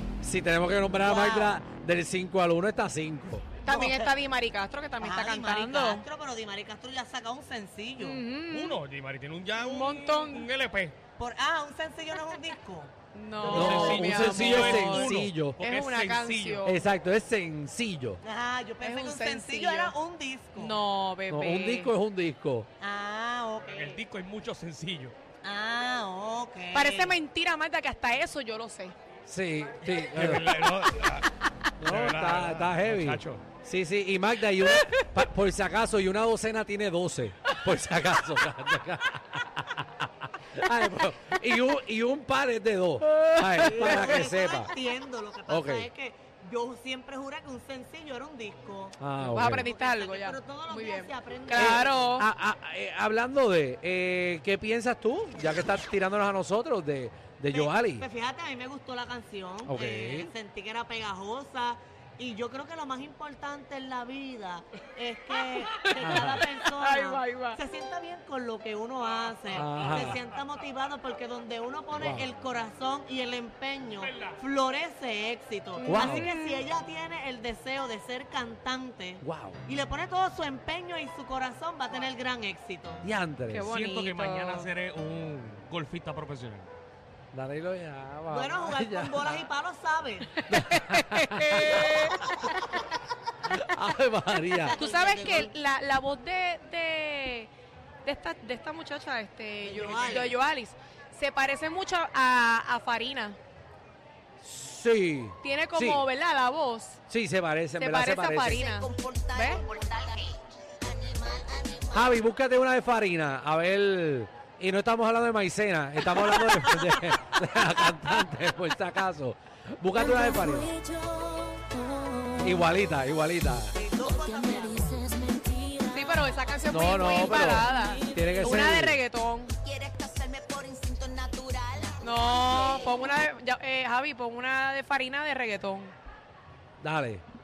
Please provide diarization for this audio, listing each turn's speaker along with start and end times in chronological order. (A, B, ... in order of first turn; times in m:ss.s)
0:00.2-0:03.5 A
0:01.0-0:01.6 B
0:03.6-0:06.0 C
0:03.7-0:04.1 B
0:05.0-0:08.3 B
0:08.0-0:08.8 C
0:08.5-0:11.0 D
0:09.7-0:10.5 C
0:11.2-0:13.8 B
0:13.1-0:16.7 C
0:13.4-0:16.7 D
0:13.5-0:15.6 A
0:16.6-0:18.2 A
0:18.2-0:20.8 B
0:18.8-0:19.9 C
0:20.6-0:21.9 C
0:21.3-0:22.7 A
0:22.8-0:24.0 B
0:23.6-0:25.2 D
0:25.4-0:27.2 B
0:26.7-0:29.0 C
0:29.3-0:30.5 A
0:29.9-0:31.3 D
0:31.8-0:44.7 A
0:31.8-0:33.4 D
0:43.6-0:52.2 B
0:45.5-0:45.9 A
0:49.0-0:49.7 A
0:49.2-0:52.2 C
0:51.5-0:58.1 A
0:57.5-1:23.1 B
0:59.7-1:00.3 A
1:05.5-1:06.0 C
1:06.0-1:06.5 A
1:06.6-1:07.6 C
1:09.0-1:10.7 D
1:09.5-1:10.2 A
1:12.0-1:12.3 A
1:14.0-1:14.4 D
1:15.8-1:16.6 C
1:15.9-1:16.3 A
1:19.2-1:19.6 A
1:23.0-1:23.7 A
1:23.6-1:26.7 D
1:23.6-1:24.7 C
1:27.3-1:29.5 A
1:28.3-1:30.3 B
1:30.5-1:32.5 A
1:30.6-1:32.6 C
1:33.5-1:34.8 A
1:34.5-1:35.6 B
1:34.8-1:37.5 C
1:38.0-1:43.4 C
1:39.6-1:40.4 B
1:44.4-1:46.1 A
1:45.4-1:47.0 C
1:47.1-1:48.6 A
1:47.8-1:49.6 C
1:48.4-1:52.1 E
1:51.9-2:00.7 A
1:56.2-1:56.6 B
2:00.0-2:02.5 E
2:02.4-2:03.8 A
2:03.7-2:05.1 B
2:04.0-2:06.4 E
2:05.9-2:09.6 C
2:06.7-2:09.0 A
2:07.4-2:08.2 E
2:09.6-2:13.2 E
2:12.0-2:16.0 C
2:16.8-2:17.2 A